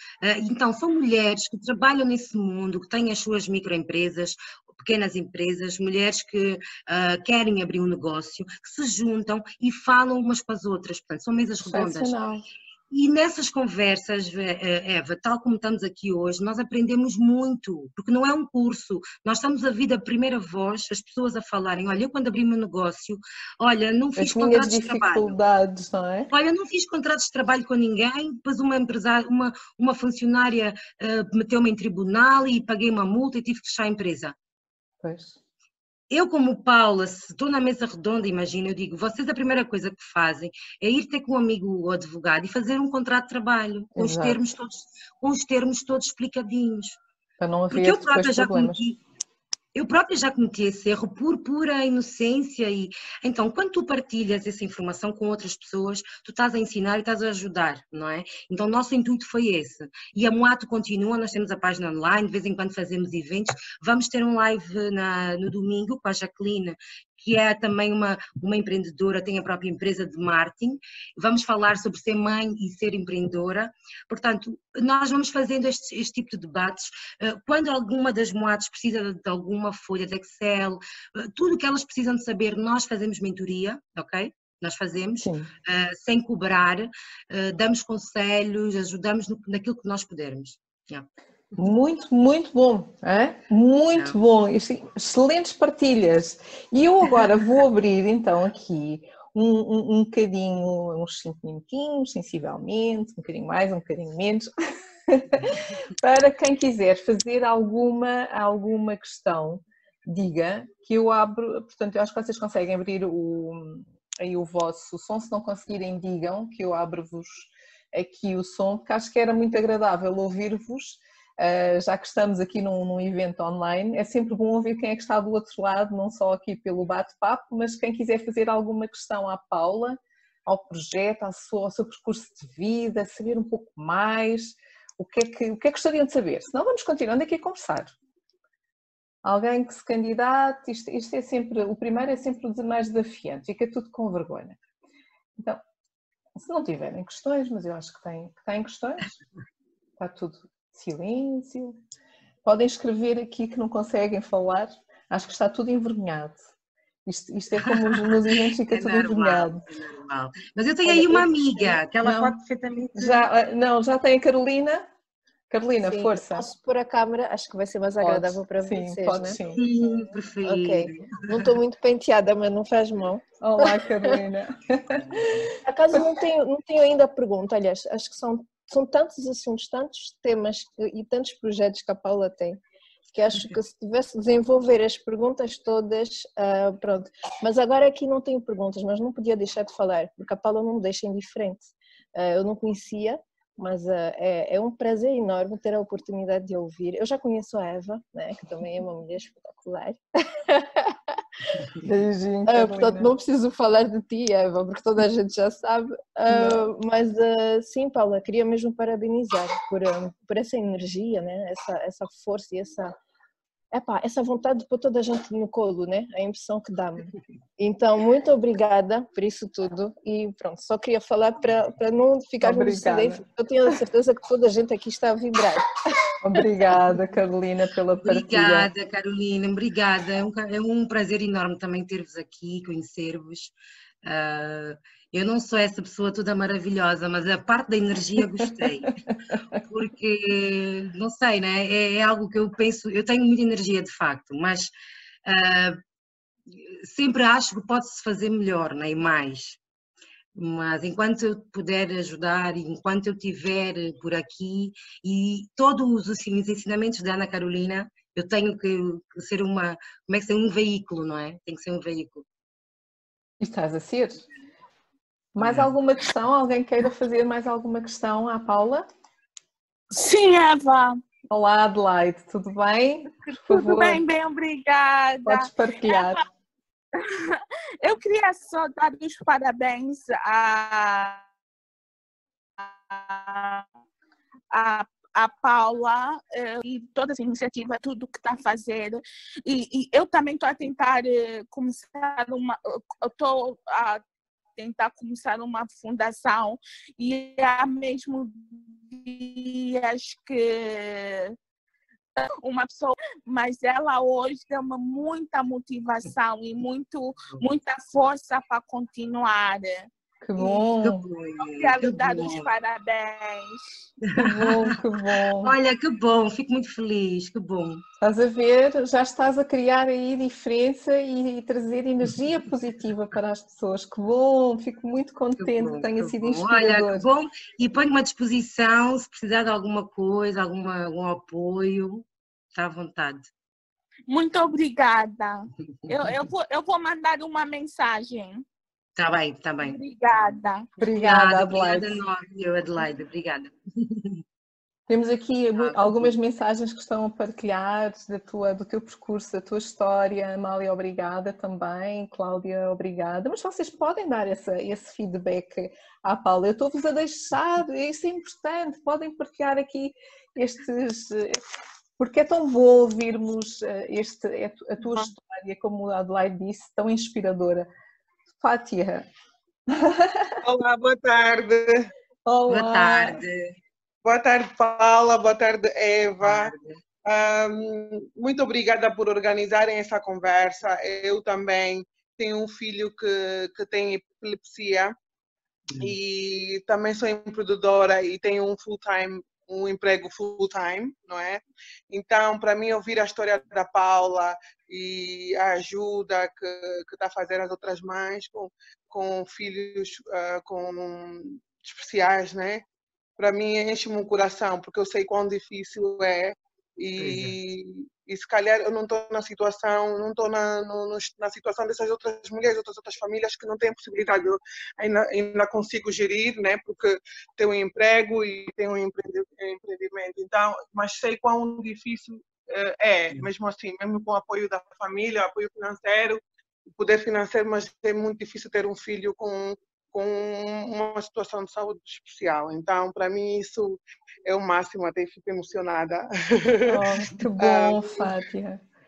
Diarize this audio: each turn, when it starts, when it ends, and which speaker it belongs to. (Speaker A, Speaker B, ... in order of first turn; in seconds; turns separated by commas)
Speaker A: 0.2-12.1, Speaker B: 11.6-12.4, Speaker A: 12.9-25.3, Speaker B: 24.2-26.3, Speaker A: 26.3-34.3, Speaker B: 35.0-35.4, Speaker A: 36.1-47.0, Speaker B: 44.0-44.4, Speaker B: 47.4-48.8, Speaker A: 47.7-49.0, Speaker A: 49.7-91.1, Speaker B: 85.2-85.5, Speaker B: 91.6-104.5, Speaker B: 105.1-137.9, Speaker B: 139.2-144.6, Speaker B: 146.3-149.1, Speaker B: 150.0-151.8, Speaker B: 152.4-156.4, Speaker B: 157.1-159.6, Speaker A: 157.8-158.1, Speaker A: 158.7-163.3, Speaker B: 160.8-162.4, Speaker B: 162.9-164.8, Speaker B: 165.5-166.5, Speaker C: 165.8-169.4, Speaker B: 168.0-169.6, Speaker A: 169.5-171.5, Speaker C: 170.4-174.1, Speaker B: 173.4-175.6, Speaker C: 175.6-182.6, Speaker C: 183.1-200.0, Speaker B: 200.5-200.8, Speaker B: 201.8-203.1, Speaker C: 202.5-212.9, Speaker B: 206.3-206.7, Speaker C: 213.7-225.6, Speaker B: 222.4-223.2, Speaker B: 226.2-228.7, Speaker A: 228.0-239.0, Speaker B: 238.9-239.6, Speaker A: 239.5-244.7, Speaker A: 245.2-245.8, Speaker A: 246.5-249.6, Speaker A: 250.3-262.2, Speaker B: 263.4-264.2, Speaker B: 265.3-268.9, Speaker D: 269.9-271.0, Speaker B: 271.3-274.0, Speaker D: 273.3-276.1, Speaker B: 275.2-276.2, Speaker D: 276.9-281.2, Speaker D: 282.6-283.6, Speaker D: 284.5-294.0, Speaker D: 294.6-301.3, Speaker D: 302.2-309.9, Speaker B: 310.2-311.0, Speaker A: 310.8-312.5, Speaker D: 311.4-313.8, Speaker A: 314.0-314.8, Speaker B: 314.2-315.6, Speaker A: 315.4-317.8, Speaker B: 318.0-327.1, Speaker A: 325.4-333.3, Speaker D: 334.1-338.4, Speaker A: 335.8-336.1, Speaker A: 339.0-339.8, Speaker D: 339.6-340.7, Speaker B: 340.8-342.0, Speaker A: 340.9-344.2, Speaker B: 344.9-361.4, Speaker A: 345.6-346.1, Speaker B: 362.0-367.7, Speaker B: 368.4-369.1, Speaker B: 369.7-370.3, Speaker E: 370.4-371.9, Speaker B: 372.2-373.2, Speaker A: 372.5-373.5, Speaker E: 374.0-384.9, Speaker A: 376.2-376.8, Speaker E: 385.8-402.6, Speaker E: 403.2-426.2, Speaker A: 407.0-407.3, Speaker E: 426.7-438.1, Speaker B: 436.7-438.6